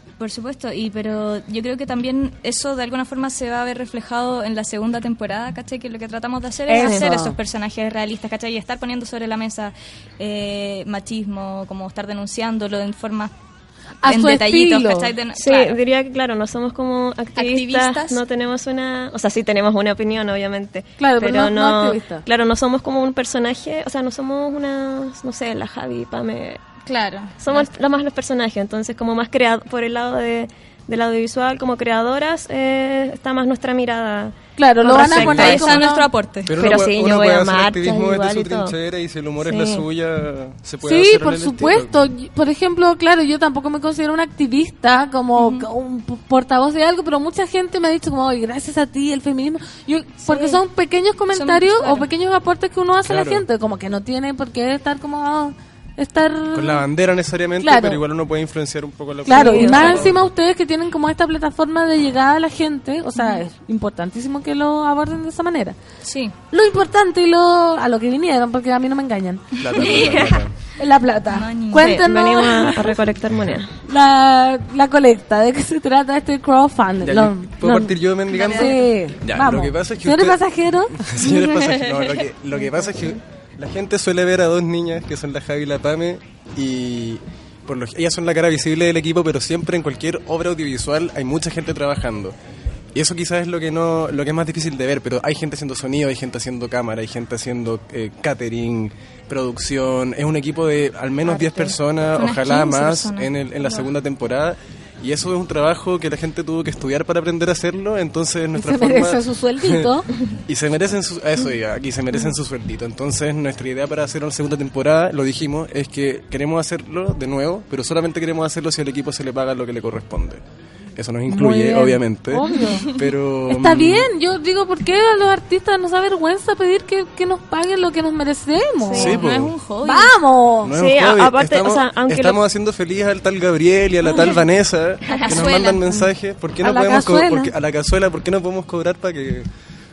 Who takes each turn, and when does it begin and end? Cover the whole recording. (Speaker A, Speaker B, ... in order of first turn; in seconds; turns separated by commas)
Speaker A: 0.2-13.3, Speaker B: 6.7-7.4, Speaker C: 6.8-7.1, Speaker B: 14.0-15.1, Speaker A: 14.0-15.8, Speaker C: 15.4-26.7, Speaker A: 17.4-18.2, Speaker B: 21.0-22.2, Speaker A: 26.9-27.7, Speaker C: 27.4-35.9, Speaker B: 34.6-36.1, Speaker A: 34.9-36.5, Speaker D: 36.5-42.0, Speaker C: 36.5-38.8, Speaker C: 39.4-39.9, Speaker B: 40.8-56.9, Speaker A: 51.3-52.1, Speaker D: 53.0-53.4, Speaker D: 56.5-60.3, Speaker B: 57.6-58.0, Speaker B: 59.3-65.8, Speaker C: 59.3-60.1, Speaker A: 66.0-66.3, Speaker B: 66.5-69.6, Speaker D: 69.6-70.5, Speaker C: 69.8-70.4, Speaker B: 70.8-73.0, Speaker A: 71.3-72.0, Speaker C: 71.8-73.7, Speaker D: 73.3-73.6, Speaker B: 73.9-81.0, Speaker D: 77.0-92.4, Speaker A: 78.3-78.9, Speaker A: 81.2-82.2, Speaker C: 82.8-83.2, Speaker D: 92.9-109.9, Speaker A: 102.1-103.9, Speaker B: 108.5-110.1, Speaker D: 110.5-120.4, Speaker D: 121.0-122.5, Speaker B: 121.3-122.9, Speaker D: 123.0-124.1, Speaker B: 123.5-129.2, Speaker C: 128.9-129.3, Speaker A: 128.9-130.2, Speaker D: 129.0-129.5, Speaker B: 129.8-130.7, Speaker D: 130.6-139.5, Speaker C: 130.7-132.4, Speaker A: 135.0-136.1, Speaker C: 135.1-135.4, Speaker B: 136.6-137.5